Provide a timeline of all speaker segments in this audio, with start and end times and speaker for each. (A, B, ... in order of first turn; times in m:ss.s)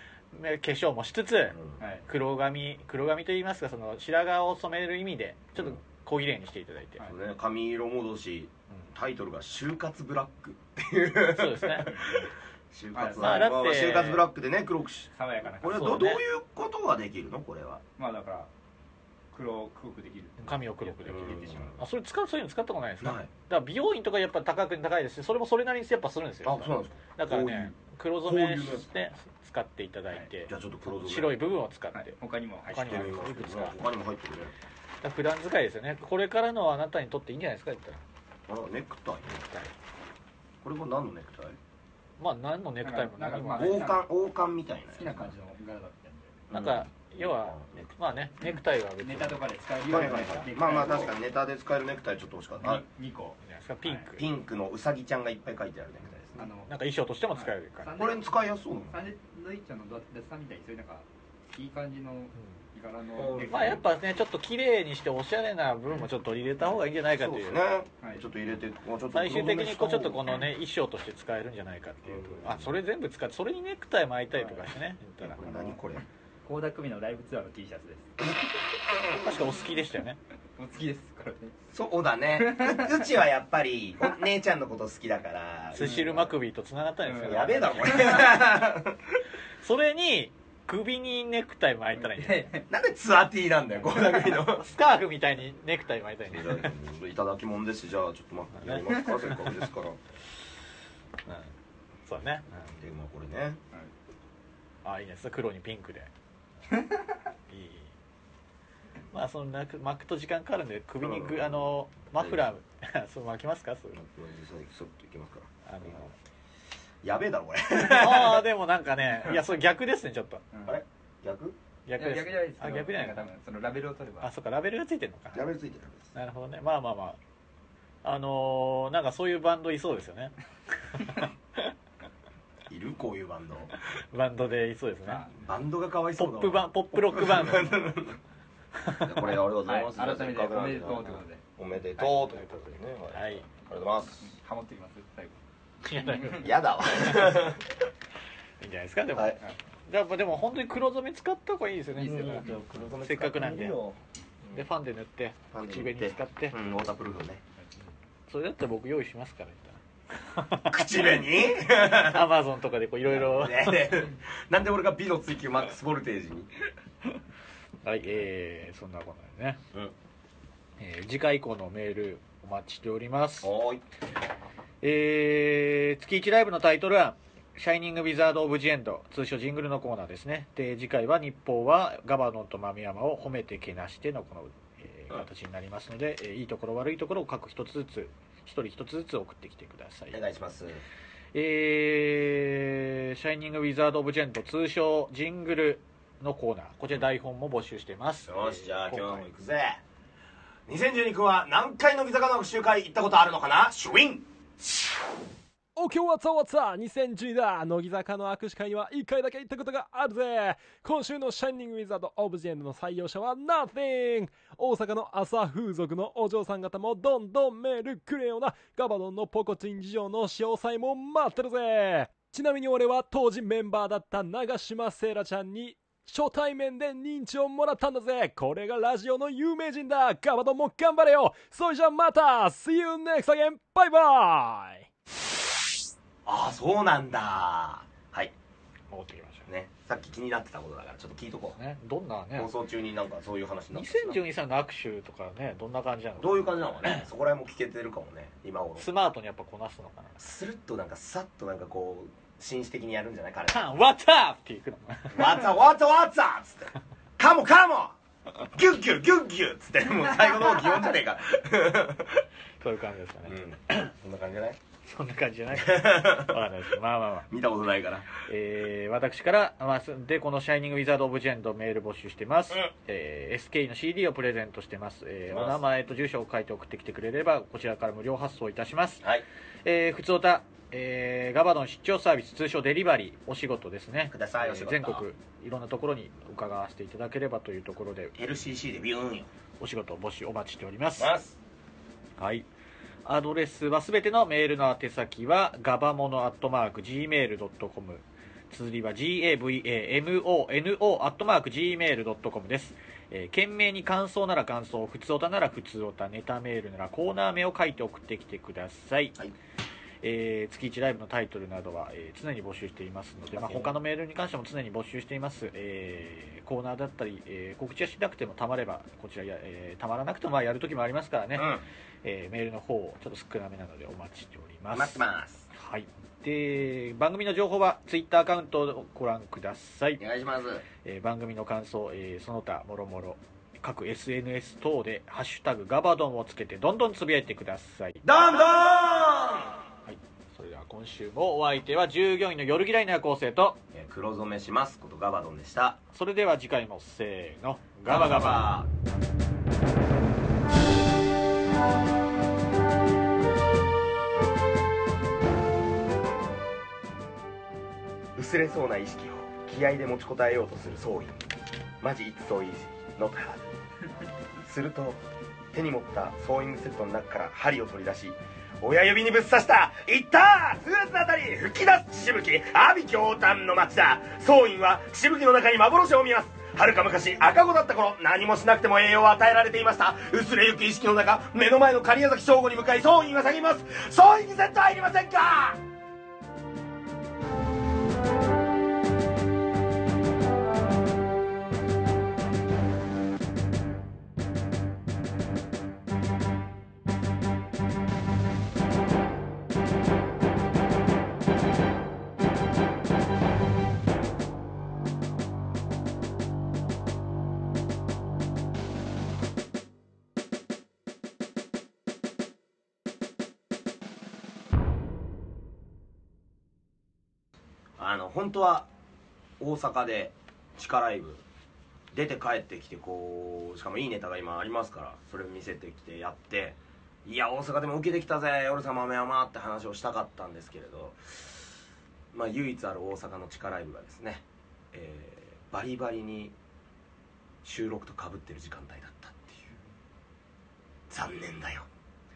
0:00.3-0:07.1 A
0:01.8-0:02.1 B
0:07.1-0:12.2 C
0:11.3-0:12.0 A
0:11.9-0:12.2 B
0:12.7-0:17.8 C
0:12.9-0:13.5 B
0:13.2-0:14.2 A
0:15.1-0:16.0 B
0:15.7-0:16.2 A
0:18.0-0:18.5 B
0:19.3-0:21.6 B
0:20.4-0:32.2 A
0:21.1-0:21.8 C
0:23.0-0:23.3 C
0:26.4-0:27.7 C
0:28.2-0:28.9 C
0:30.5-0:31.4 C
0:31.9-0:33.2 B
0:32.7-0:33.8 A
0:32.8-0:34.5 C
0:35.0-0:38.0 A
0:38.5-0:39.5 C
0:40.6-0:41.6 C
0:42.2-0:43.9 A
0:42.8-0:44.0 B
0:43.6-0:45.2 C
0:44.9-0:46.4 B
0:46.5-0:47.9 C
0:46.5-0:49.4 A
0:48.4-0:51.1 B
0:49.8-0:52.8 C
0:52.6-0:54.1 B
0:53.4-0:54.3 A
0:54.2-0:56.4 C
0:56.3-0:56.7 B
0:56.7-0:58.0 A
0:57.3-1:03.8 B
0:58.0-0:59.0 C
1:03.2-1:03.9 C
1:03.4-1:07.6 A
1:07.1-1:10.3 C
1:08.0-1:08.3 B
1:09.1-1:15.5 A
1:12.0-1:12.7 C
1:15.2-1:16.0 C
1:15.4-1:15.7 B
1:16.4-1:18.2 B
1:19.1-1:20.2 A
1:20.6-1:21.6 B
1:21.7-1:26.3 C
1:22.4-1:23.0 B
1:25.7-1:28.3 A
1:25.8-1:26.1 B
1:27.0-1:28.3 B
1:27.2-1:29.0 C
1:29.6-1:32.5 A
1:32.0-1:32.7 B
1:32.7-1:34.7 C
1:34.5-1:36.7 A
1:36.3-1:40.0 C
1:38.6-1:39.3 A
1:42.1-1:42.5 A
1:42.7-1:43.6 C
1:44.8-1:46.1 A
1:47.5-1:47.9 A
1:49.1-1:54.0 A
1:51.0-1:52.5 C
1:54.0-1:56.1 C
1:55.6-1:56.1 A
1:57.0-1:58.4 C
1:57.8-2:00.4 A
2:00.5-2:00.8 B
2:00.6-2:01.6 C
2:01.8-2:03.3 A
2:02.0-2:04.3 B
2:04.2-2:05.5 A
2:05.3-2:06.1 C
2:06.1-2:07.2 A
2:08.0-2:10.3 A
2:11.0-2:11.7 A
2:12.7-2:13.7 C
2:14.1-2:15.2 A
2:15.1-2:15.3 B
2:15.3-2:18.2 C
2:16.2-2:17.7 A
2:18.8-2:19.4 A
2:18.9-2:24.3 C
2:19.6-2:21.4 B
2:23.1-2:23.4 A
2:24.2-2:25.4 B
2:25.8-2:27.5 A
2:26.3-2:27.6 C
2:28.6-2:32.4 A
2:32.0-2:32.5 B
2:32.0-2:34.0 C
2:33.0-2:33.8 A
2:34.5-2:36.6 A
2:35.5-2:37.4 C
2:38.3-2:41.0 A
2:40.7-2:42.3 C
2:41.7-2:44.0 A
2:43.0-2:46.5 C
2:47.8-2:49.6 A
2:50.8-2:53.5 A
2:53.4-2:53.8 C
2:54.8-3:10.2 A
3:10.1-3:10.8 C
3:11.3-3:19.2 A
3:18.3-3:19.8 C
3:20.7-3:24.3 C
3:25.8-3:54.9 D
3:56.2-3:58.3 C
3:58.9-3:59.5 A
3:59.4-4:01.6 C
4:01.5-4:02.5 A
4:02.4-4:04.2 C
4:03.7-4:07.0 A
4:06.2-4:08.9 C
4:08.8-4:10.2 A
4:10.2-4:13.6 C
4:13.5-4:15.4 A
4:15.1-4:18.0 C
4:18.5-4:22.2 C
4:22.6-4:23.9 A
4:23.3-4:24.6 C
4:24.9-4:27.3 A
4:25.6-4:26.4 C
4:27.3-4:28.1 C
4:28.2-4:39.0 A
4:35.3-4:35.6 C
4:39.6-4:48.2 A
4:44.1-4:45.0 C
4:48.2-4:49.3 C
4:49.6-4:51.1 A
4:51.0-4:51.4 C
4:52.2-4:52.4 A
4:53.0-5:09.2 A
5:10.0-5:25.0 A
5:13.3-5:13.8 C
5:21.4-5:21.6 C
5:24.7-5:25.5 C
5:25.5-5:30.0 A
5:30.0-5:30.6 C
5:30.8-5:38.0 A
5:38.0-5:39.6 C
5:39.9-5:43.6 A
5:43.7-5:45.8 C
5:45.9-5:48.5 A
5:47.8-5:48.7 C
5:58.2-6:01.3 C
6:01.8-6:03.5 C
6:04.4-6:05.0 C
6:05.5-6:25.6 C
6:57.8-6:58.7 C
6:59.4-7:01.2 C
7:01.9-7:11.4 C
7:12.1-7:16.3 C
7:17.4-7:19.6 C
7:20.9-7:21.7 C